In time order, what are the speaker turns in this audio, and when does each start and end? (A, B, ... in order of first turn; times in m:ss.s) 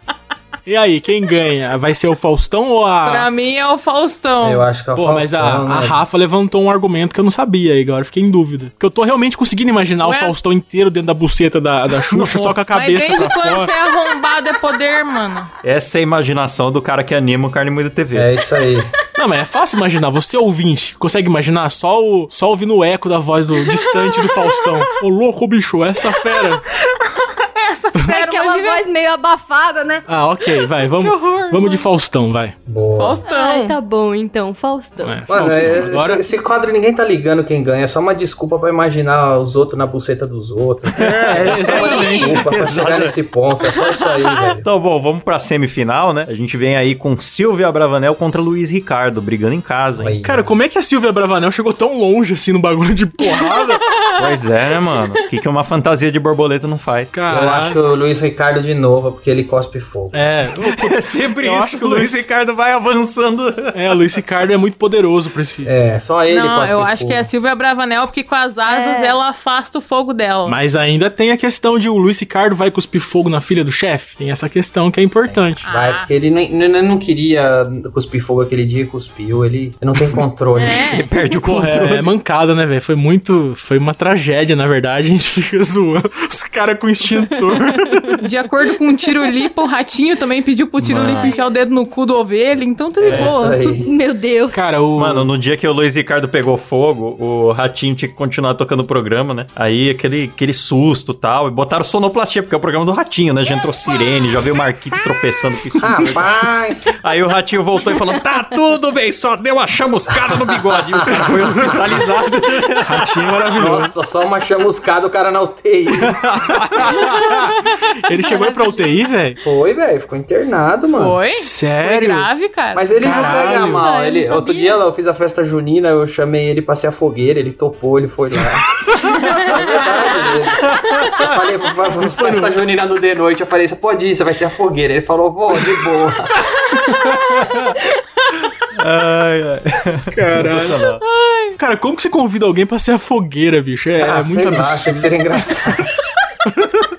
0:00.6-0:03.3 A
0:03.0-0:04.6 B
0:04.4-0:06.0 C
0:04.9-0:13.7 A
0:10.0-0:10.3 B
0:12.0-0:12.7 D
0:12.7-0:15.5 B
0:15.6-0:18.3 D
0:18.1-0:18.9 C
0:19.2-0:26.6 A
0:23.7-0:24.8 B
0:26.9-0:28.8 B
0:28.0-0:30.0 E
0:30.1-0:32.6 A
0:30.9-0:31.8 B
0:32.6-0:33.2 C
0:32.9-0:33.8 B
0:33.2-0:35.2 E
0:35.0-0:36.2 A
0:35.3-0:44.6 C
0:40.9-0:42.9 A
0:41.0-0:43.1 D
0:41.7-0:42.4 B
0:44.5-0:50.2 D
0:50.0-0:50.5 C
0:50.2-0:53.8 A
0:53.5-0:55.1 B
0:54.2-0:57.2 D
0:57.1-0:57.8 A
0:57.3-1:00.2 C
1:00.1-1:02.3 A
1:00.6-1:03.9 D
1:03.7-1:05.7 A
1:05.6-1:07.3 C
1:06.3-1:10.6 B
1:08.6-1:09.2 E
1:10.4-1:15.7 A
1:15.6-1:16.1 B
1:15.6-1:20.9 C
1:20.5-1:21.1 B
1:20.8-1:22.1 D
1:21.4-1:28.2 A
1:27.9-1:28.2 E
1:28.2-1:33.8 B
1:30.8-1:31.3 D
1:31.0-1:31.6 E
1:33.0-1:33.9 C
1:33.0-1:33.4 A
1:33.5-1:34.8 E
1:34.5-1:35.3 A
1:34.9-1:46.4 D
1:45.8-1:46.9 C
1:46.9-1:53.7 D
1:50.7-1:51.9 C
1:51.4-1:51.8 A
1:52.8-1:53.9 A
1:53.6-1:56.2 C
1:56.0-1:57.5 D
1:58.0-1:59.4 A
1:58.2-1:59.0 E
1:59.4-2:01.2 C
2:00.9-2:02.9 B
2:01.3-2:02.3 A
2:02.7-2:08.8 C
2:03.0-2:03.9 A
2:03.0-2:04.8 E
2:09.2-2:10.3 B
2:09.3-2:09.8 D
2:09.3-2:16.5 C
2:10.6-2:11.4 D
2:12.0-2:12.5 A
2:16.9-2:17.8 D
2:18.7-2:21.0 D
2:20.1-2:20.9 A
2:21.0-2:21.6 B
2:21.6-2:25.6 A
2:24.0-2:25.9 C